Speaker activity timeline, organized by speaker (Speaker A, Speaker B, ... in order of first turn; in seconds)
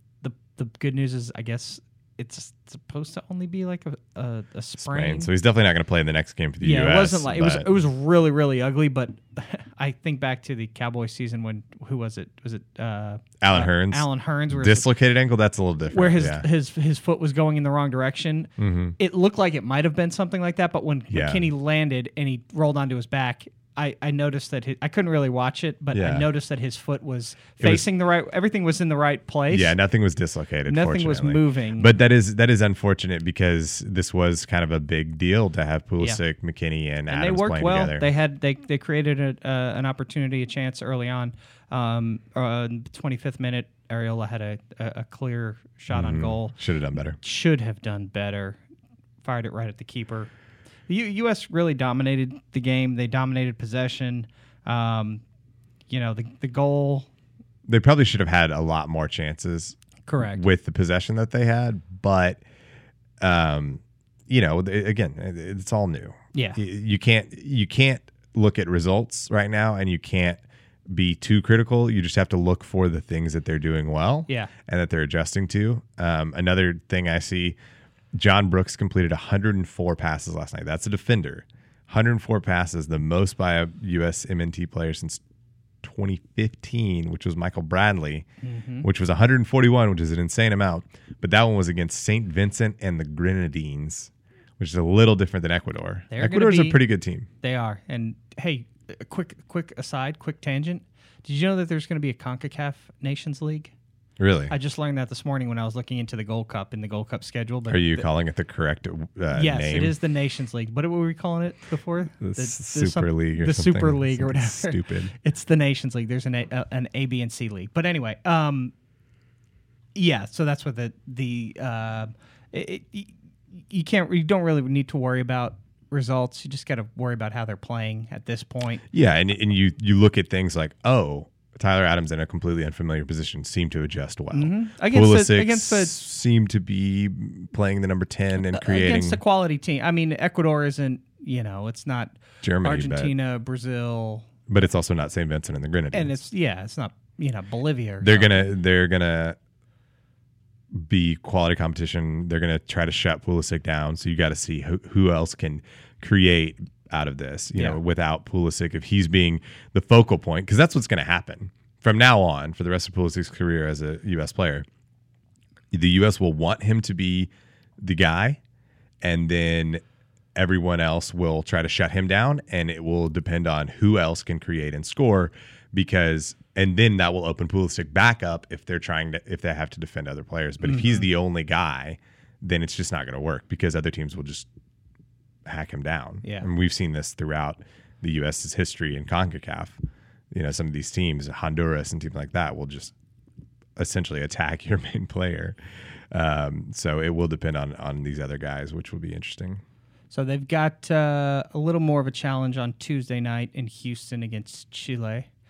Speaker A: 0.2-5.3, 6.6-14.9, 15.9-29.8, 30.7-31.9, 37.1-46.5, 47.2-48.6, 49.2-50.3, 50.9-55.2, 55.9-57.1, 60.1-60.5, 66.3-66.6, 88.4-88.9, 96.1-96.8, 97.4-103.7, 104.5-108.0, 109.3-118.7, 119.9-123.1, 123.7-128.8, 134.3-135.9, 138.5-144.3, 145.9-148.5, 180.6-181.1, 186.2-186.5, 200.1-205.3
Speaker B: 4.8-7.8, 13.4-16.4, 18.6-18.9, 21.1-21.5, 25.9-26.2, 29.5-38.0, 45.9-47.2, 57.7-62.4, 63.2-77.6, 78.1-85.2, 85.8-88.3, 88.8-97.3, 104.2-104.5, 107.7-110.0, 112.2-115.1, 128.9-139.2, 142.4-143.1, 144.5-146.1, 148.0-149.4, 150.7-164.7, 165.7-168.4, 169.0-169.8, 170.3-184.5, 185.4-189.8, 190.3-192.9, 193.8-195.6, 196.1-199.6